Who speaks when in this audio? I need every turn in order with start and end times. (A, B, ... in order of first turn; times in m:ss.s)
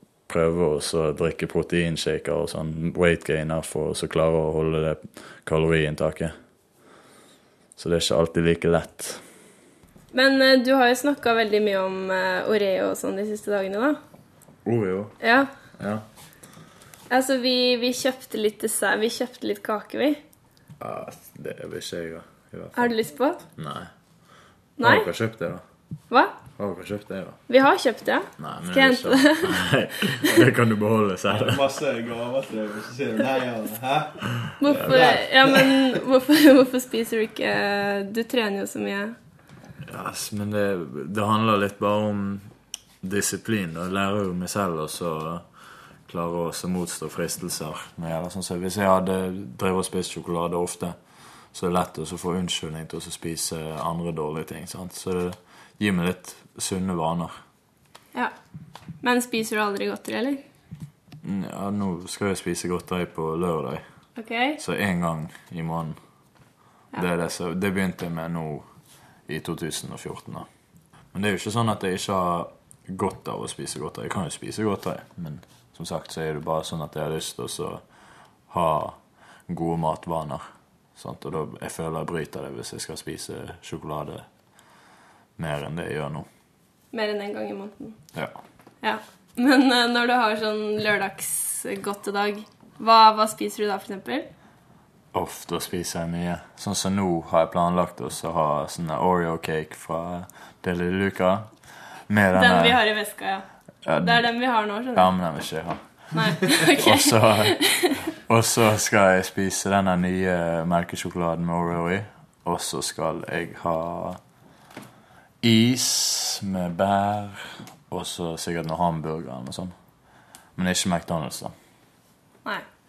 0:00.3-0:06.3 A
0:07.8-0:09.4 A
0:10.1-0:14.0 B
0:14.6-0:15.2 A
0:15.2-0:15.5 B
0:15.8-0:16.0 A
0:17.1-0:20.2 B
0:20.8-0:23.0 A
0:22.8-0:23.4 B
0:23.6-0:23.9 A
0:24.8-0:25.1 B
0:24.8-0:25.6 A
0:26.6-0:27.4 A
0:27.5-0:29.6 B
0:28.4-0:31.7 A
0:31.3-0:34.1 C
0:34.6-0:39.2 B
0:34.7-0:36.0 C
0:34.7-0:35.2 A
0:39.9-0:42.5 A
0:43.0-0:51.0 A
0:51.5-0:57.4 A
0:59.0-1:00.4 B
1:01.2-1:03.8 A
1:04.2-1:04.6 B
1:04.6-1:06.0 A
1:06.9-1:10.5 A
1:11.1-1:24.3 A
1:25.4-1:26.3 A
1:26.9-1:28.0 B
1:28.8-1:34.3 B
1:35.1-1:42.8 A
1:42.4-1:43.4 B
1:43.8-1:46.2 A
1:44.0-1:45.1 B
1:46.1-1:48.0 B
1:46.8-1:47.7 A
1:48.3-1:54.2 A
1:55.4-1:59.7 A
2:00.6-2:01.5 A